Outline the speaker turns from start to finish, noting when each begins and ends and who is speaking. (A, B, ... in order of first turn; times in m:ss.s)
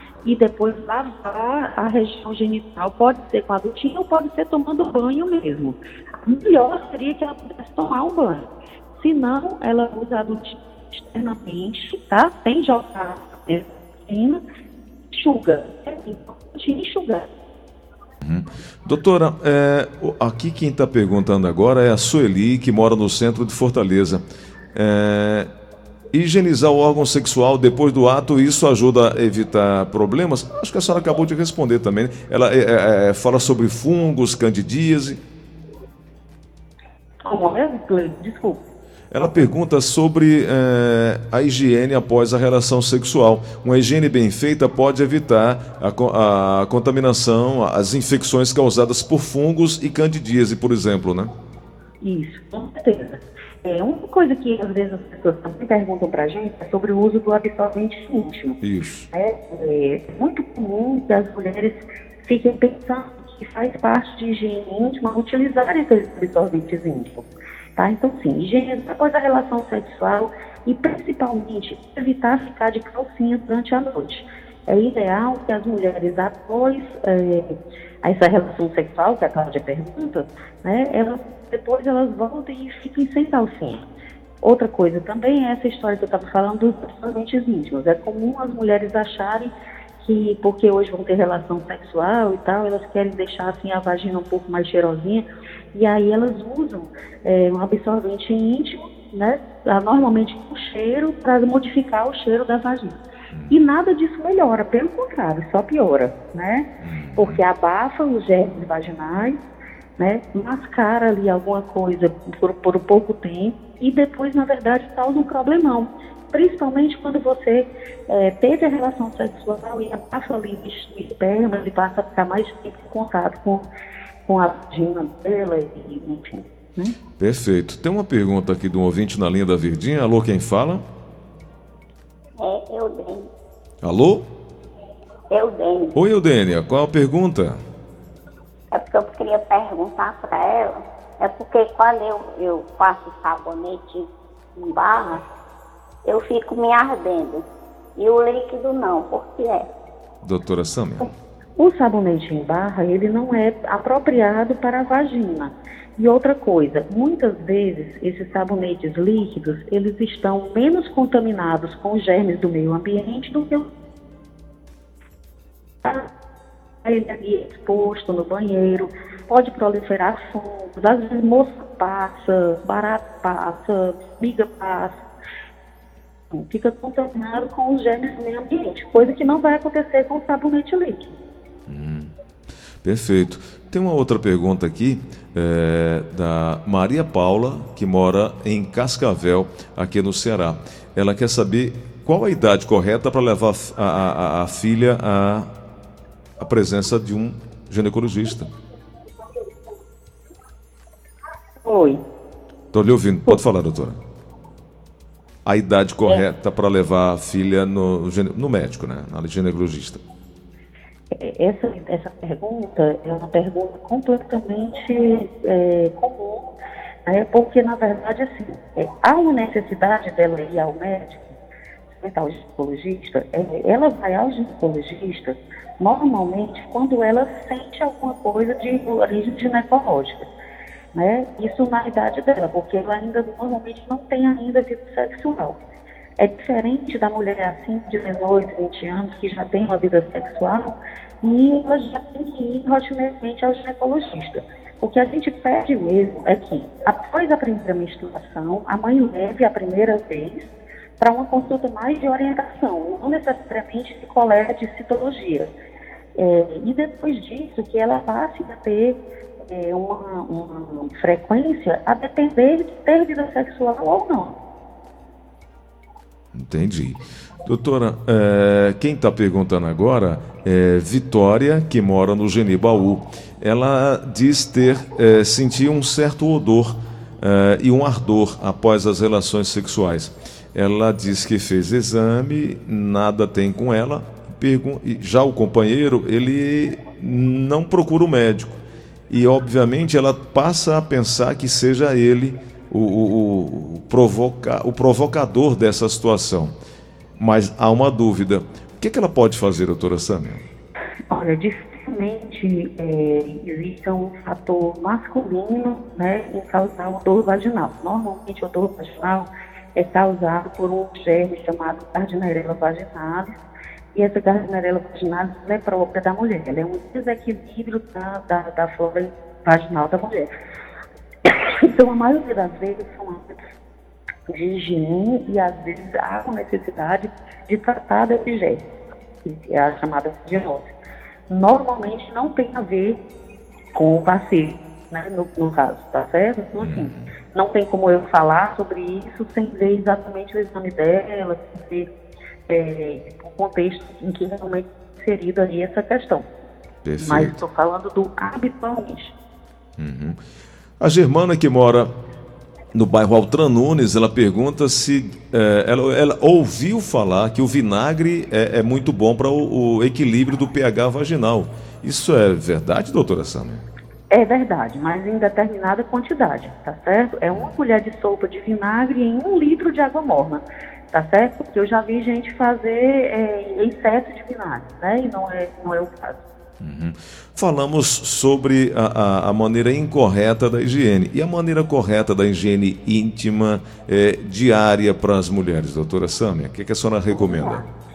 0:00.2-0:14.4 A
0:15.1-0:17.3 A
0:18.2-0:25.5 B
0:26.1-0:35.2 B
0:37.2-0:38.6 A
0:39.1-0:51.3 B
0:39.2-0:39.5 A
0:52.0-0:58.6 A
0:58.6-0:59.1 B
0:59.1-1:23.8 A
1:24.4-1:49.4 A
1:43.3-1:43.6 B
1:46.8-1:47.4 B
1:50.0-2:03.7 A
2:04.2-2:07.0 A
2:07.2-2:10.8 B
2:12.4-2:13.3 C
2:13.8-2:14.2 B
2:15.3-2:16.0 C
2:16.0-2:17.6 B
2:18.7-2:25.2 C
2:26.0-2:27.5 C
2:28.0-2:29.7 C
2:30.2-2:31.1 B
2:31.6-2:43.7 A
2:45.8-2:46.1 A
2:46.8-2:55.0 A
2:56.3-3:01.2 A
3:01.7-3:02.1 B
3:02.8-3:15.5 B
3:16.4-3:18.5 B
3:21.6-3:22.0 A
3:22.7-3:24.0 B
3:25.4-3:30.0 B
3:31.1-3:36.6 A
3:37.1-3:41.4 A
3:41.9-3:50.3 A
3:50.9-3:55.6 A
3:56.2-4:15.5 A
4:16.2-4:24.4 A
4:26.3-4:56.5 B
4:57.2-5:00.4 B
5:01.1-5:13.4 A
5:13.9-5:20.3 A
5:21.2-5:23.4 A
5:24.3-5:28.6 A
5:29.2-5:30.7 A
5:31.3-5:33.0 A
5:33.8-5:41.9 A
5:36.6-5:37.1 B
5:42.5-5:46.3 A
5:46.8-5:47.4 B
5:47.0-5:49.1 A
5:49.8-5:50.2 B
5:50.8-5:51.9 B
5:52.7-6:03.6 B
6:04.1-6:16.2 A
6:07.3-6:07.6 B
6:16.6-6:27.6 B
6:27.1-6:27.7 A